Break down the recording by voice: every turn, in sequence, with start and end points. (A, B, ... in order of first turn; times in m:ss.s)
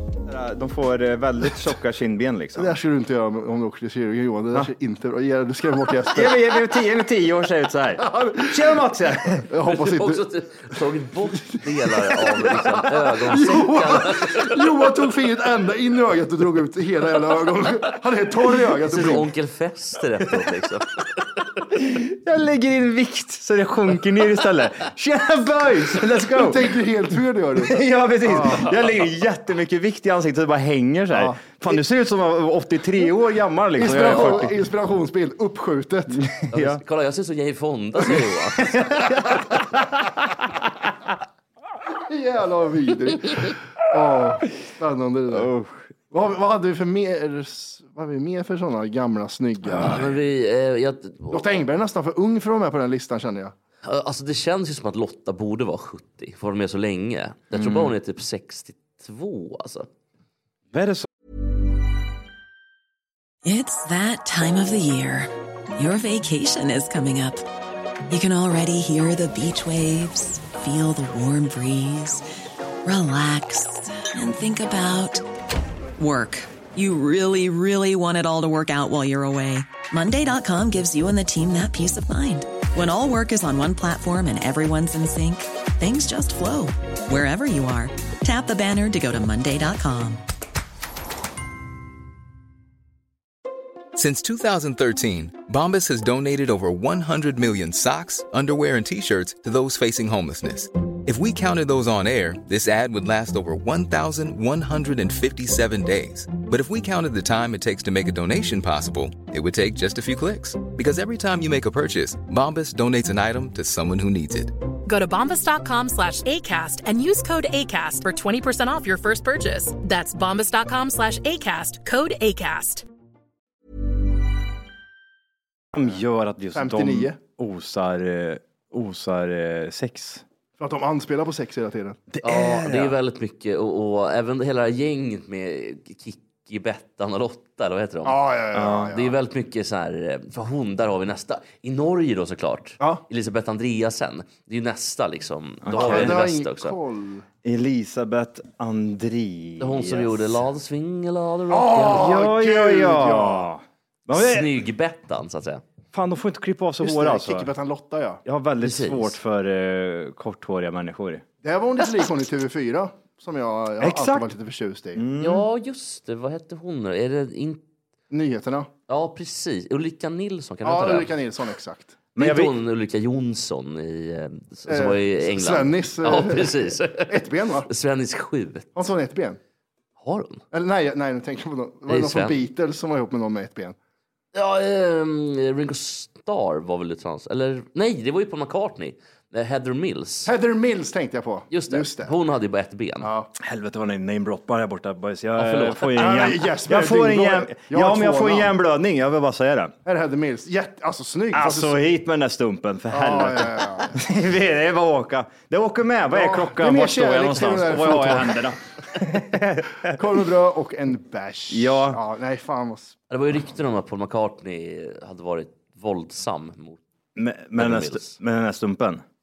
0:00.3-0:02.8 A
0:02.6-0:06.7 B
0:06.1-0:09.5 A
0:08.0-0:08.8 B
0:09.3-0:10.2 B
0:09.6-0:14.6 C
0:11.5-0:19.3 B
0:18.9-0:21.3 C
0:21.7-0:26.8 A
0:26.3-0:28.7 B
0:27.6-0:34.6 A
0:31.1-0:31.8 B
0:33.8-0:36.3 B
0:34.0-0:34.5 C
0:36.1-0:36.8 A
0:36.5-0:39.3 C
0:42.1-0:45.5 B
0:45.3-0:45.9 A
0:46.1-0:50.1 B
0:49.7-0:51.6 C
0:51.3-0:53.5 B
0:53.8-0:59.9 C
0:57.5-0:57.9 A
1:00.7-1:01.1 A
1:03.4-1:07.4 D
1:08.1-1:12.2 D
1:12.8-1:15.2 D
1:16.0-1:30.2 D
1:34.0-1:54.5 E
1:54.9-2:02.9 F
2:05.7-2:10.2 A
2:06.5-2:07.2 B
2:10.6-2:12.0 B
2:12.1-2:13.0 A
2:12.2-2:18.3 C
2:18.0-2:19.2 B
2:18.5-2:19.0 A
2:18.9-2:26.8 C
2:25.6-2:26.2 A
2:25.7-2:27.3 B
2:27.4-2:30.3 A
2:29.6-2:32.1 C
2:31.5-2:33.5 B
2:31.8-2:34.6 A
2:34.1-2:35.6 C
2:35.9-2:37.5 A
2:36.8-2:38.2 B
2:38.2-2:41.2 A
2:38.6-2:39.2 C
2:41.4-2:45.0 B
2:43.8-2:44.3 A
2:45.0-2:45.4 A
2:45.2-2:47.6 C
2:48.1-2:48.7 B
2:48.9-2:51.2 C
2:50.6-2:52.0 B
2:52.2-2:52.6 A
2:52.2-2:57.2 C
2:54.7-2:57.7 B
2:57.7-2:58.7 C
2:58.8-2:59.4 B
3:00.0-3:00.4 C
3:00.5-3:03.8 B
3:01.9-3:02.4 C
3:04.3-3:10.3 C
3:10.3-3:12.1 B
3:11.5-3:13.1 C
3:13.0-3:13.3 B
3:13.4-3:19.7 A
3:15.4-3:16.3 C
3:16.0-3:18.5 B
3:19.8-3:21.8 B
3:21.3-3:30.0 A
3:22.9-3:23.9 B
3:26.1-3:28.5 B
3:29.8-3:33.0 B
3:31.5-3:32.0 A
3:33.1-3:36.8 C
3:37.2-3:39.0 A
3:37.6-3:38.2 C